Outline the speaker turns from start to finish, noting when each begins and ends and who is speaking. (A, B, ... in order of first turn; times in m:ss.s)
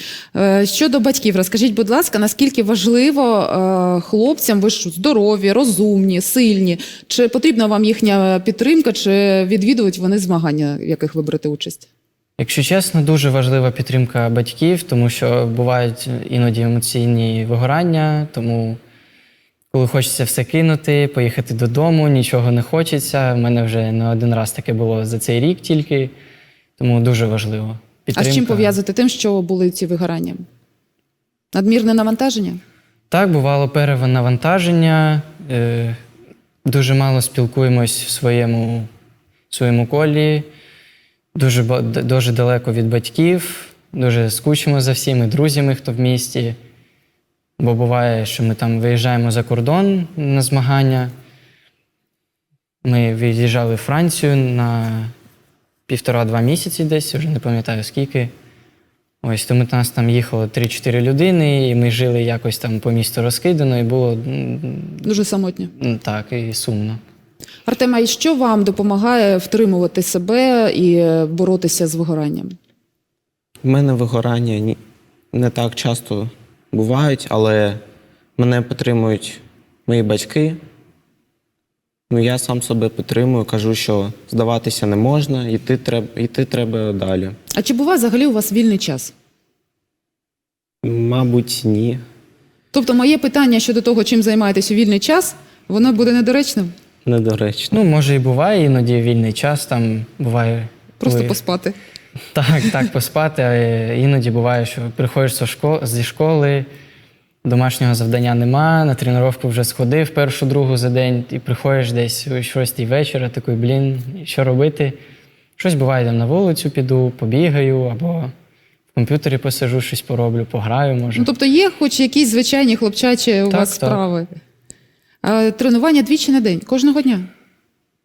0:00.3-0:11.8 A
0:12.4-0:18.8 B
0:19.7-0:26.1 B
0:26.8-0:28.8 B
0:28.1-0:30.4 A
0:31.5-0:32.6 A
0:33.1-0:36.0 B
0:36.6-0:38.9 B
0:39.5-0:40.4 B
0:41.3-0:46.6 B
0:47.6-0:51.1 B
0:52.8-0:55.1 B
0:55.9-0:58.3 B
0:59.2-1:05.1 B
1:05.0-1:05.7 A
1:05.7-1:07.0 B
1:07.7-1:12.6 A
1:13.6-1:14.8 C
1:15.3-1:17.8 C
1:18.4-1:20.6 C
1:22.1-1:27.4 C
1:27.5-1:29.1 A
1:30.8-1:32.0 C
1:32.7-1:36.7 A
1:37.0-1:37.8 C
1:37.7-1:41.4 B
1:41.0-1:41.8 A
1:42.3-1:46.7 B
1:47.4-1:55.0 B
1:55.6-1:58.3 B
1:58.9-2:01.3 B
2:01.2-2:04.3 A
2:03.5-2:04.0 B
2:05.2-2:07.3 A